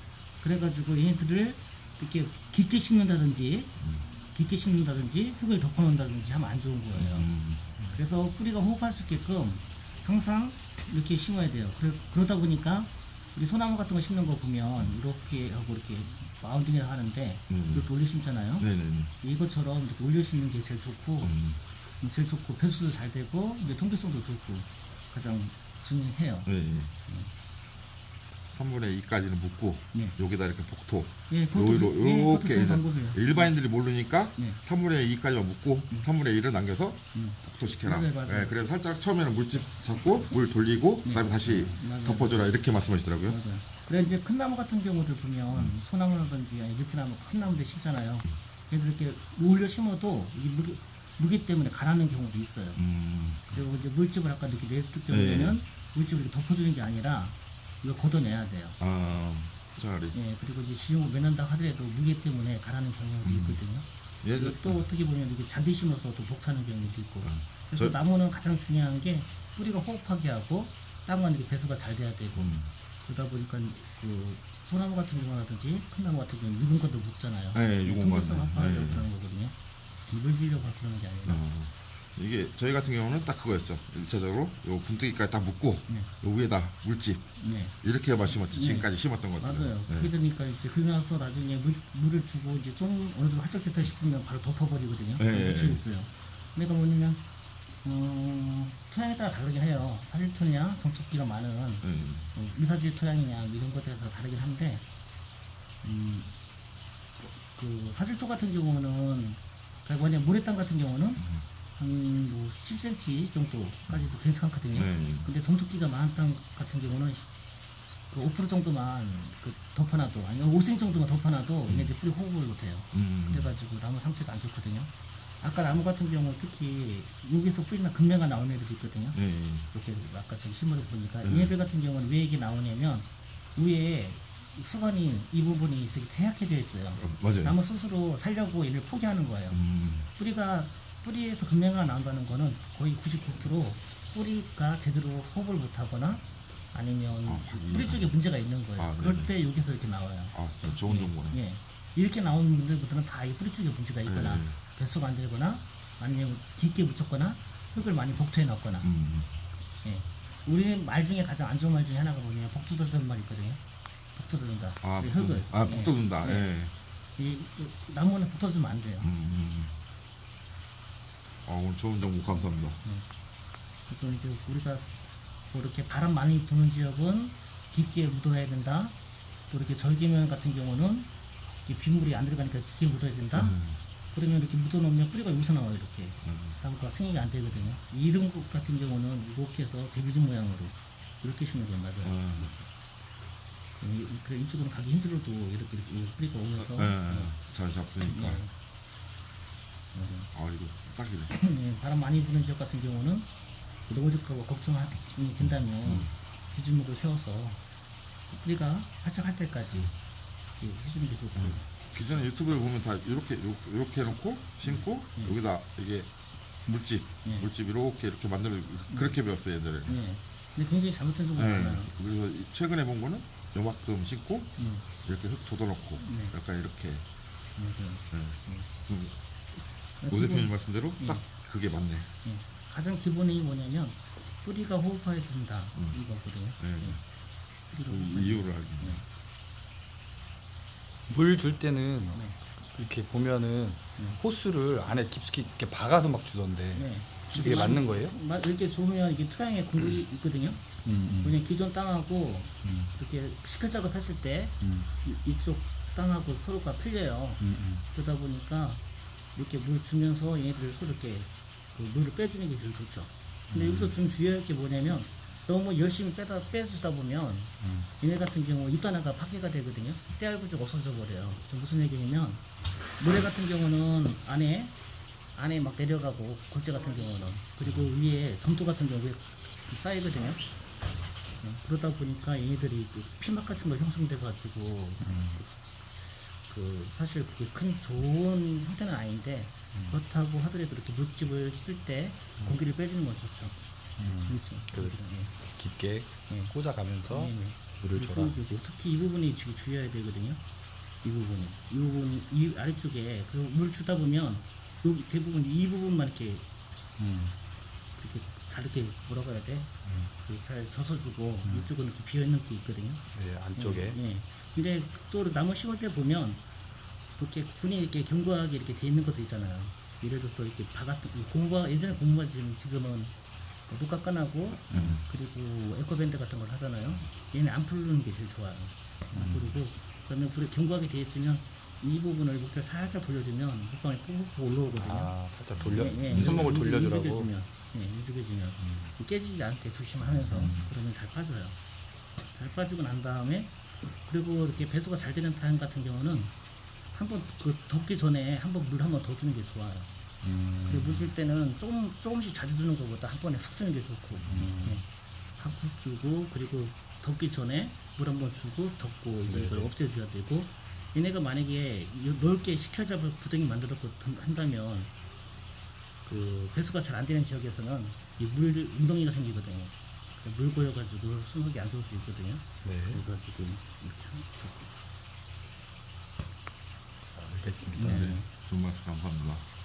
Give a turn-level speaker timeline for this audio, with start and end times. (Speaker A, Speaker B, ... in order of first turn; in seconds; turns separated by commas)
Speaker A: 0.4-7.3, Speaker B: 3.8-4.1, Speaker B: 6.9-7.8, Speaker A: 7.9-21.3, Speaker B: 17.5-17.9, Speaker B: 18.6-19.1, Speaker B: 21.2-21.6, Speaker A: 22.0-26.5, Speaker B: 26.5-27.0, Speaker B: 28.5-43.4, Speaker A: 31.3-33.5, Speaker A: 37.1-38.6, Speaker A: 41.0-42.5, Speaker A: 43.3-52.8, Speaker B: 52.8-53.6, Speaker A: 53.5-58.8, Speaker B: 55.1-55.6, Speaker B: 58.8-60.2, Speaker A: 60.1-79.5, Speaker B: 63.2-63.6, Speaker B: 64.2-64.8, Speaker B: 67.2-68.0, Speaker B: 72.4-72.7, Speaker B: 77.5-79.1, Speaker A: 80.1-81.4, Speaker B: 81.2-90.1, Speaker A: 87.4-87.8, Speaker A: 88.5-97.2, Speaker B: 95.2-95.8, Speaker A: 97.8-104.8, Speaker B: 101.8-102.3, Speaker A: 105.8-106.3, Speaker A: 107.2-111.2, Speaker B: 111.2-111.4, Speaker A: 111.8-117.3, Speaker B: 114.7-115.3, Speaker A: 118.0-129.2, Speaker B: 121.7-121.9, Speaker B: 122.9-123.5, Speaker B: 129.2-129.7, Speaker A: 129.7-139.6, Speaker B: 131.2-131.5, Speaker B: 137.0-137.6, Speaker B: 139.5-140.1, Speaker A: 140.2-158.9, Speaker B: 147.3-148.2, Speaker B: 148.8-149.3, Speaker B: 150.3-151.4, Speaker B: 154.1-154.6, Speaker B: 158.8-159.3, Speaker A: 159.8-163.6, Speaker A: 164.1-166.5, Speaker B: 164.8-166.7, Speaker A: 167.2-169.1, Speaker B: 169.0-169.8, Speaker B: 171.4-172.8, Speaker A: 173.9-174.9, Speaker A: 175.5-178.9, Speaker A: 179.5-181.1, Speaker A: 181.6-183.6, Speaker B: 183.3-183.8, Speaker A: 184.1-192.7, Speaker B: 186.2-186.6, Speaker B: 192.0-192.5, Speaker A: 193.8-197.3, Speaker B: 196.6-198.4, Speaker A: 198.0-198.5, Speaker A: 199.9-200.3, Speaker B: 200.3-201.3, Speaker A: 201.3-203.3, Speaker A: 203.9-207.6, Speaker B: 205.4-206.1, Speaker A: 208.3-209.9, Speaker A: 210.6-212.2, Speaker B: 211.4-216.1, Speaker A: 214.6-215.4, Speaker B: 216.7-220.0, Speaker A: 218.9-219.2, Speaker A: 219.9-221.9, Speaker B: 221.3-227.1, Speaker A: 224.6-224.8, Speaker A: 226.0-226.3, Speaker A: 227.6-228.7, Speaker B: 228.1-229.1, Speaker A: 230.0-231.3, Speaker B: 230.1-232.1, Speaker A: 232.2-237.0, Speaker B: 236.6-237.0, Speaker A: 237.7-239.0, Speaker B: 237.9-239.0, Speaker C: 241.1-248.2, Speaker A: 246.7-250.6, Speaker C: 250.8-251.4, Speaker A: 251.2-258.8, Speaker C: 252.6-252.9, Speaker C: 254.6-254.9, Speaker C: 257.4-257.8, Speaker A: 259.3-272.4, Speaker C: 263.5-263.9, Speaker C: 267.6-267.9, Speaker A: 273.0-274.7, Speaker A: 275.4-280.4, Speaker A: 281.4-293.6, Speaker C: 285.0-285.4, Speaker C: 294.0-298.4, Speaker A: 294.2-295.3, Speaker A: 297.1-300.4, Speaker A: 301.0-306.4, Speaker C: 307.0-307.4, Speaker A: 308.0-313.0, Speaker C: 311.4-311.7, Speaker C: 313.1-314.0, Speaker A: 313.6-316.4, Speaker A: 317.2-323.1, Speaker A: 323.7-341.6, Speaker C: 324.7-325.0, Speaker B: 324.7-325.0, Speaker C: 329.1-329.6, Speaker C: 334.8-337.3, Speaker B: 336.0-336.5, Speaker C: 338.6-338.9, Speaker C: 340.2-340.6, Speaker B: 340.4-340.7, Speaker A: 342.3-343.5, Speaker A: 344.0-346.3, Speaker A: 346.9-349.9, Speaker C: 350.2-351.1, Speaker A: 350.7-364.9, Speaker C: 354.3-354.8, Speaker C: 359.3-359.7, Speaker A: 366.1-374.6, Speaker C: 372.6-373.0, Speaker C: 377.1-378.1, Speaker A: 377.8-378.3, Speaker B: 377.8-379.4